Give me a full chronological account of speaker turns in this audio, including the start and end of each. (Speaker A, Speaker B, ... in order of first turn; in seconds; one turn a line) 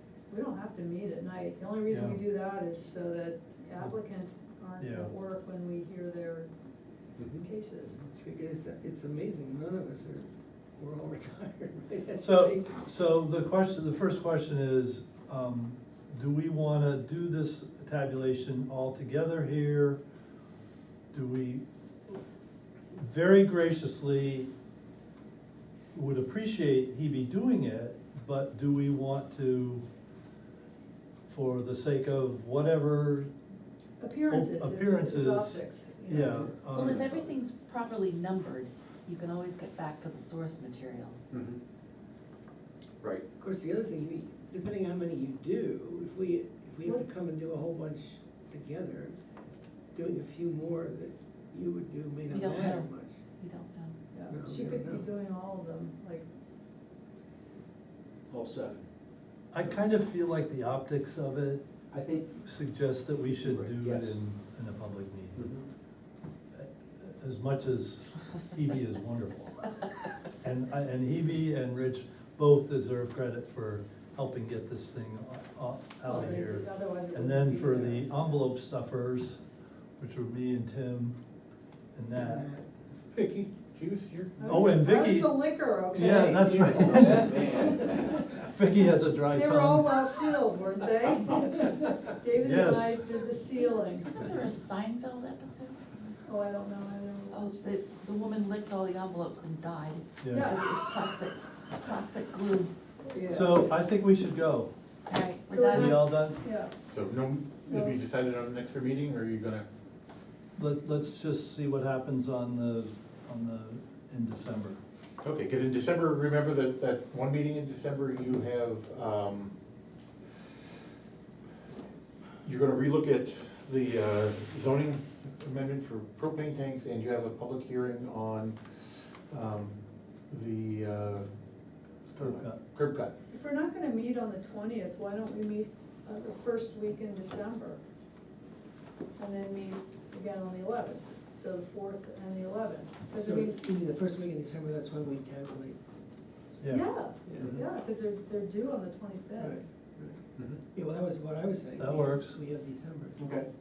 Speaker A: 0.3-6.5
Speaker B: 1.9-2.2
Speaker B: 4.8-5.1
Speaker C: 7.2-7.4
Speaker A: 7.4-8.0
Speaker D: 8.1-12.8
Speaker B: 12.2-20.0
Speaker B: 21.1-22.2
Speaker B: 22.9-24.5
Speaker B: 25.9-29.8
Speaker B: 31.3-33.3
Speaker A: 34.0-36.5
Speaker B: 34.3-37.3
Speaker E: 36.7-41.2
Speaker D: 43.4-49.2
Speaker D: 49.9-53.1
Speaker E: 52.3-54.0
Speaker A: 54.1-56.2
Speaker D: 54.3-55.1
Speaker C: 58.3-58.8
Speaker B: 59.5-61.6
Speaker C: 61.9-62.3
Speaker B: 62.3-65.5
Speaker C: 63.3-64.2
Speaker C: 65.3-65.6
Speaker B: 66.5-69.6
Speaker B: 70.4-79.4
Speaker A: 76.0-78.1
Speaker B: 80.0-81.2
Speaker B: 81.9-82.5
Speaker D: 82.2-82.6
Speaker F: 83.1-84.6
Speaker A: 84.4-87.5
Speaker B: 84.5-90.1
Speaker C: 86.0-87.8
Speaker A: 89.3-94.1
Speaker B: 92.3-93.0
Speaker E: 93.5-95.8
Speaker A: 96.2-97.7
Speaker E: 97.3-102.7
Speaker B: 100.2-100.6
Speaker A: 100.3-100.6
Speaker A: 103.1-103.5
Speaker B: 103.3-104.7
Speaker E: 105.1-106.1
Speaker A: 105.5-106.7
Speaker B: 105.7-106.4
Speaker F: 106.9-109.7
Speaker A: 107.7-108.0
Speaker B: 110.5-114.8
Speaker F: 115.2-119.5
Speaker F: 122.4-129.8
Speaker F: 130.3-131.2
Speaker F: 132.1-133.1
Speaker B: 132.1-132.6
Speaker A: 133.3-137.8
Speaker A: 139.2-143.7
Speaker D: 143.2-145.8
Speaker A: 146.6-149.6
Speaker D: 147.2-147.6
Speaker D: 149.3-153.2
Speaker B: 151.8-152.4